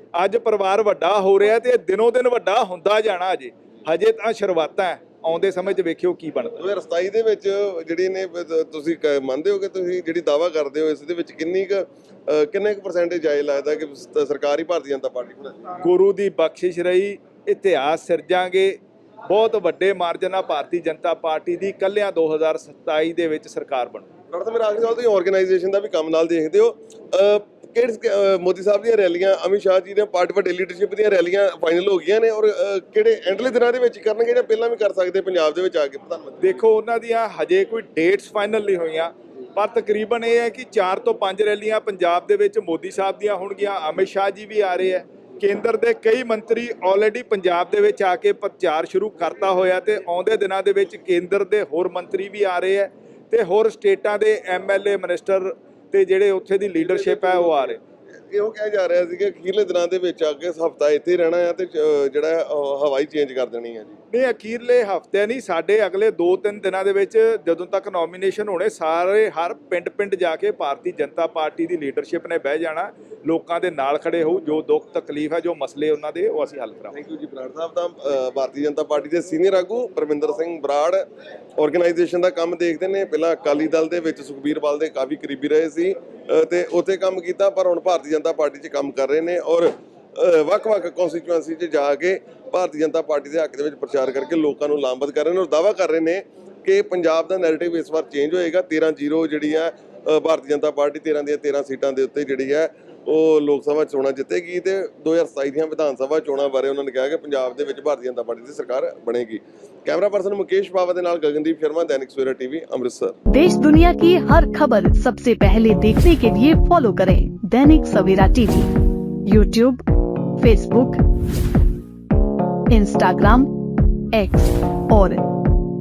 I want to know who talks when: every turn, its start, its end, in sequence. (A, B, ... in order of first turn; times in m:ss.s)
0:00.1-0:06.6 A
0:06.6-0:15.7 B
0:15.8-0:24.1 A
0:24.3-0:36.6 B
0:36.4-0:57.8 A
0:56.8-1:04.0 B
1:04.1-1:17.0 A
1:16.9-1:21.0 B
1:21.6-1:53.2 B
1:53.3-1:58.7 C
1:59.2-1:59.8 C
2:00.4-2:01.0 C
2:02.7-2:03.5 C
2:04.1-2:05.3 C